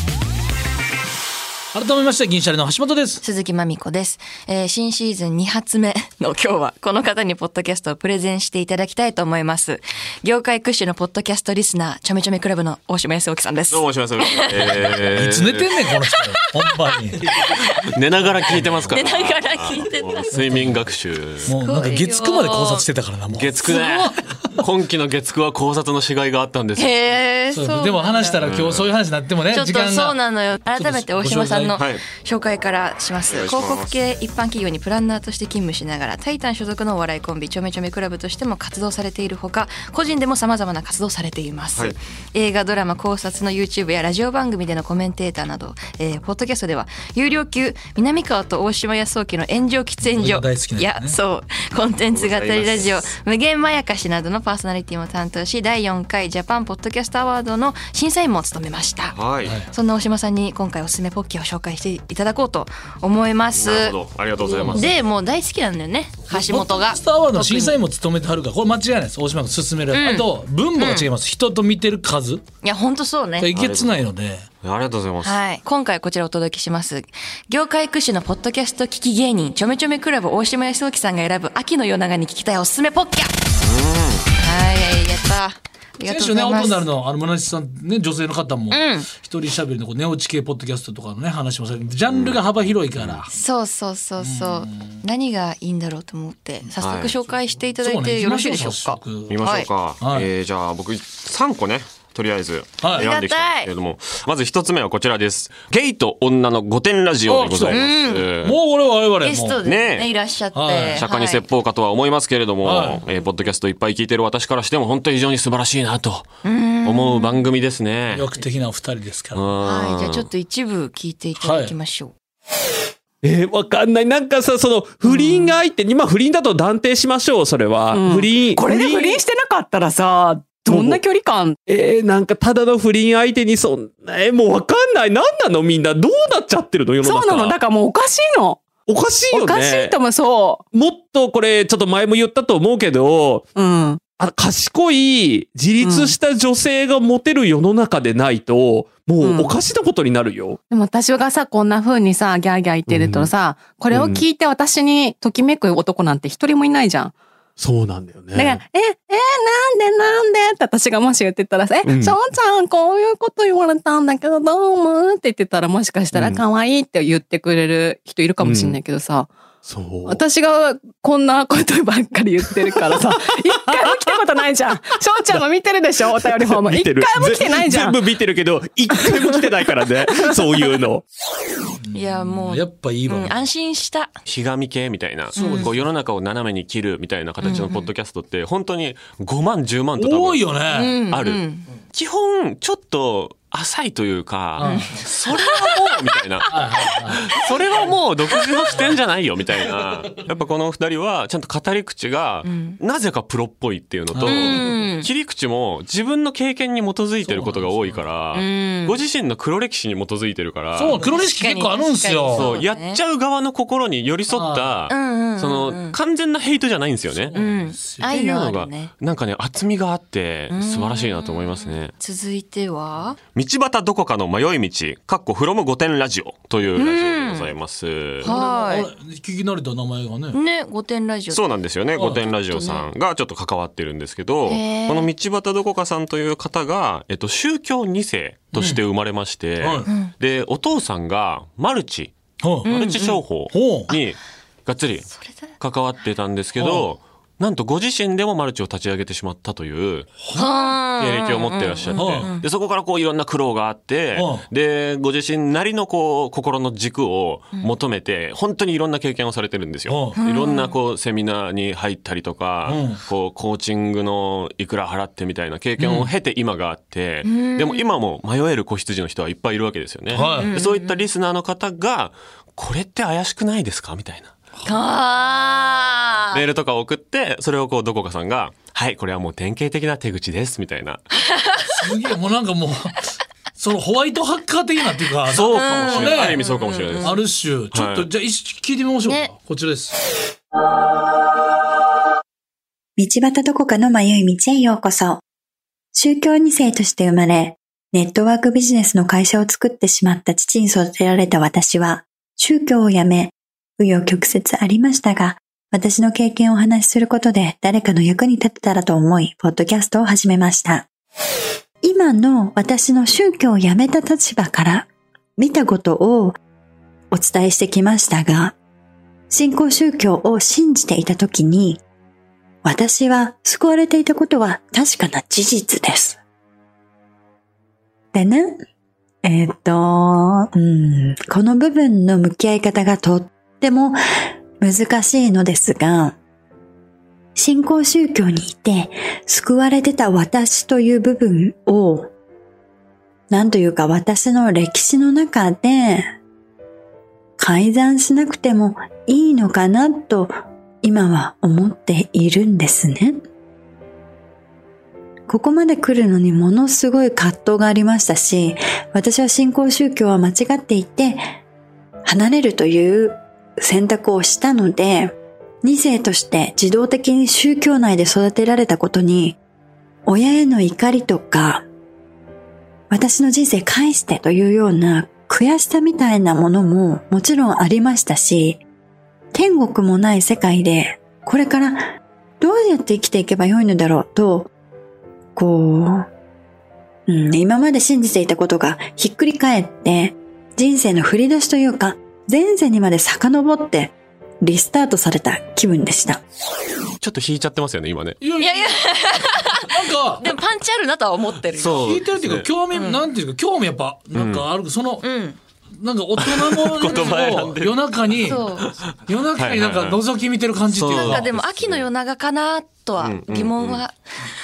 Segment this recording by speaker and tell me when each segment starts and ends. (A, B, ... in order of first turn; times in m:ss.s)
0:01.7-0:03.2 A
0:03.2-0:14.9 B
0:13.7-0:15.8 C
0:14.9-0:17.3 A
0:17.4-0:21.5 C
0:18.6-0:18.8 A
0:18.9-0:20.4 B
0:20.3-0:20.8 A
0:21.4-0:24.7 A
0:21.5-0:22.8 B
0:23.3-0:26.9 C
0:26.8-0:28.4 B
0:27.5-0:31.8 A
0:28.4-0:28.9 C
0:29.5-1:07.8 B
0:33.3-0:33.9 C
0:50.0-0:51.2 A
0:52.1-0:53.0 C
0:59.1-0:59.6 C
0:59.4-0:59.7 A
1:03.6-1:04.9 C
1:04.5-1:04.9 A
1:06.3-1:12.4 A
1:09.9-1:11.1 B
1:12.6-1:13.5 B
1:13.4-1:14.5 A
1:13.5-1:14.1 C
1:14.6-1:15.4 C
1:15.2-1:23.3 B
1:23.6-1:24.3 C
1:24.4-1:26.8 B
1:26.0-1:33.3 A
1:28.7-1:29.1 B
1:32.1-1:32.4 C
1:32.9-1:33.2 C
1:33.3-1:39.7 B
1:34.2-1:35.0 A
1:36.8-1:37.1 C
1:37.7-1:39.4 A
1:39.3-1:48.6 C
1:40.0-1:40.3 A
1:42.8-1:43.1 A
1:42.9-1:43.7 B
1:47.3-1:47.8 A
1:47.7-1:48.3 B
1:48.4-1:49.6 A
1:49.2-1:51.4 B
1:49.6-1:50.1 C
1:50.5-1:51.0 A
1:51.0-1:56.3 C
1:52.6-1:53.0 A
1:56.4-1:57.4 B
1:56.8-1:58.4 C
1:58.1-1:59.5 A
1:59.3-2:00.3 C
1:59.6-2:02.1 B
2:01.4-2:01.8 A
2:03.2-2:09.2 D
2:05.2-2:05.5 E
2:08.0-2:11.6 E
2:10.4-2:11.0 D
2:11.6-2:17.6 D
2:17.1-2:18.6 E
2:18.8-2:20.0 D
2:19.4-2:20.6 E
2:20.7-2:23.5 D
2:23.6-2:24.0 E
2:24.1-2:30.6 D
2:30.7-2:37.1 E
2:32.9-2:33.3 D
2:33.9-2:34.3 D
2:37.6-2:38.6 D
2:38.4-2:49.3 E
2:41.8-2:42.1 D
2:46.1-2:46.4 D
2:48.4-2:48.8 D
2:49.6-2:50.2 D
2:50.1-2:57.8 E
2:55.2-3:01.0 D
3:01.8-3:03.4 A
3:01.9-3:04.1 B
3:04.2-3:10.5 C
3:05.3-3:05.8 A
3:05.4-3:05.7 B
3:07.4-3:07.9 B
3:10.0-3:11.0 A
3:10.7-3:11.7 B
3:11.1-3:31.0 C
3:14.6-3:15.0 A
3:14.6-3:15.7 B
3:16.4-3:17.2 A
3:22.4-3:22.8 B
3:24.1-3:24.8 A
3:24.2-3:25.1 B
3:27.2-3:28.0 A
3:28.3-3:29.0 B
3:30.8-3:32.5 A
3:30.9-3:33.0 B
3:32.3-3:37.3 C
3:34.3-3:34.7 A
3:34.9-3:36.0 B
3:37.2-3:38.1 A
3:37.3-3:38.9 B
3:38.1-3:41.9 C
3:40.5-3:43.2 B
3:43.3-3:48.3 C
3:46.8-3:47.5 B
3:48.2-3:50.4 A
3:48.2-3:48.9 B
3:50.3-3:51.4 B
3:51.3-4:02.1 C
3:51.9-3:52.3 A
3:52.5-3:52.9 B
3:54.4-3:55.1 B
3:58.5-3:58.8 A
3:59.6-3:59.9 A
3:59.8-4:00.1 B
4:02.4-4:02.7 A
4:02.6-4:04.0 B
4:02.7-4:10.1 C
4:03.5-4:03.9 A
4:05.1-4:05.5 B
4:06.6-4:06.9 A
4:10.2-4:10.7 A
4:10.3-4:12.4 B
4:11.0-4:34.3 C
4:11.9-4:12.3 A
4:14.1-4:14.4 A
4:19.9-4:20.2 A
4:20.2-4:20.7 B
4:22.6-4:23.0 A
4:25.8-4:26.1 A
4:27.2-4:27.9 B
4:30.1-4:30.5 A
4:30.2-4:31.0 B
4:34.6-4:36.4 B
4:36.3-4:41.0 C
4:41.6-4:46.4 A
4:45.3-4:47.2 C
4:45.5-4:47.2 B
4:47.0-4:49.9 A
4:47.7-4:48.1 C
4:49.0-4:49.3 B
4:53.0-4:55.2 F
4:55.9-5:10.9 F
5:11.8-5:16.4 F
5:17.1-5:18.5 F
5:19.3-5:21.8 F
5:22.6-5:26.2 F
5:28.1-5:28.6 F
5:29.2-5:34.0 F
5:34.6-5:36.2 F
5:37.4-5:42.1 F
5:43.3-5:46.1 F
5:47.4-5:50.3 F
5:50.8-5:53.2 F
5:55.3-6:01.2 F
6:02.0-6:09.4 F
6:10.1-6:11.6 F
6:12.9-6:18.6 F
6:19.3-6:21.9 F
6:22.4-6:24.5 F
6:25.4-6:26.0 F
6:27.1-6:36.2 F
6:37.0-6:38.2 C
6:38.2-6:40.3 A
6:38.4-6:41.9 B
6:41.5-6:42.5 C
6:41.8-6:45.1 A
6:42.7-6:43.0 B
6:44.1-6:44.5 C
6:45.0-6:45.4 B
6:45.8-6:48.5 A
6:46.2-6:50.0 C
6:46.8-6:47.3 B
6:48.2-6:48.7 B
6:49.0-6:51.3 A
6:50.7-6:51.9 C
6:51.0-6:54.0 B
6:53.0-6:53.8 C